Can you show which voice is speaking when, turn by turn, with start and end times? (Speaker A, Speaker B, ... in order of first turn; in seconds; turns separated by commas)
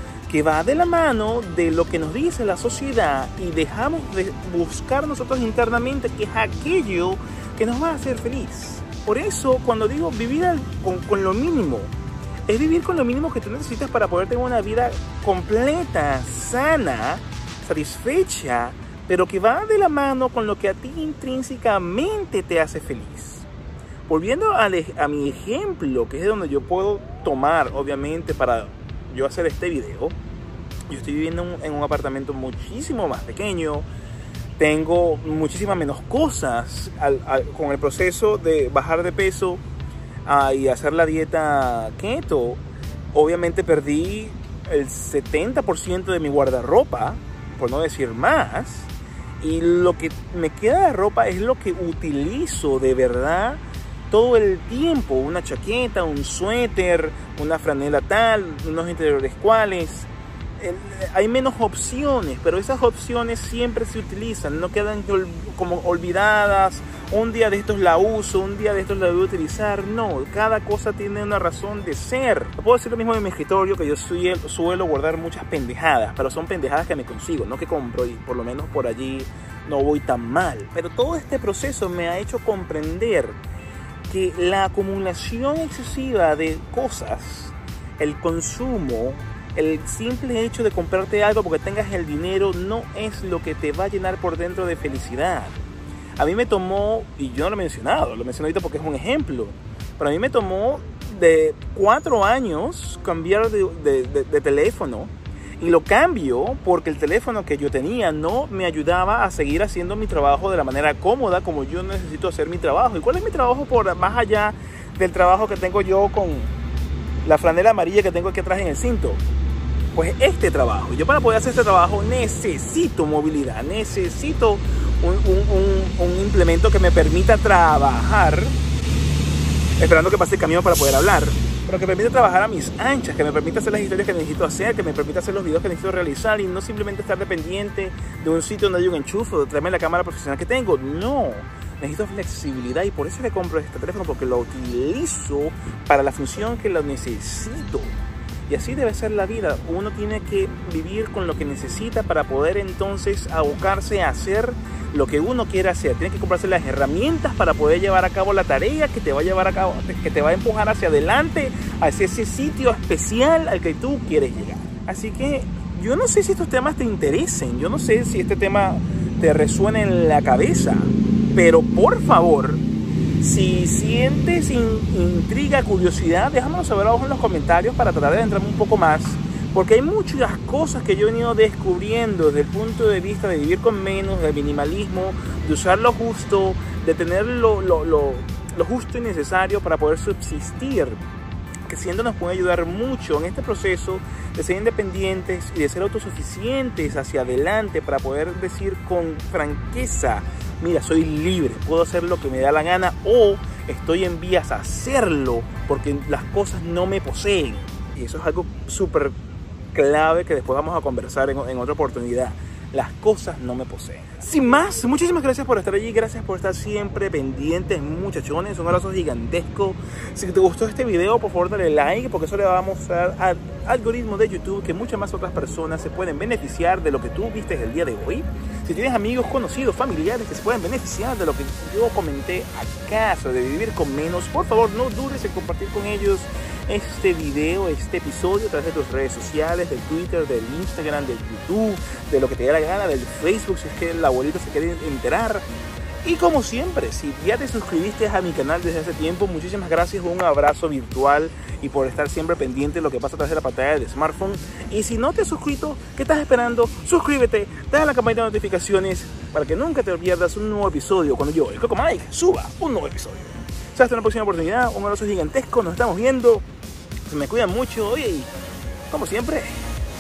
Speaker A: 0.3-11.9, Speaker A: 12.5-23.5, Speaker A: 24.1-30.2, Speaker A: 30.9-33.9, Speaker A: 34.6-39.6, Speaker A: 40.2-42.6, Speaker A: 43.1-83.4, Speaker A: 84.1-95.6, Speaker A: 96.2-116.5, Speaker A: 117.2-119.2, Speaker A: 119.9-128.6, Speaker A: 129.8-147.9, Speaker A: 148.5-172.6, Speaker A: 173.2-191.0, Speaker A: 191.7-209.1, Speaker A: 209.7-245.5, Speaker A: 246.0-266.4, Speaker A: 267.1-268.3, Speaker A: 268.9-269.6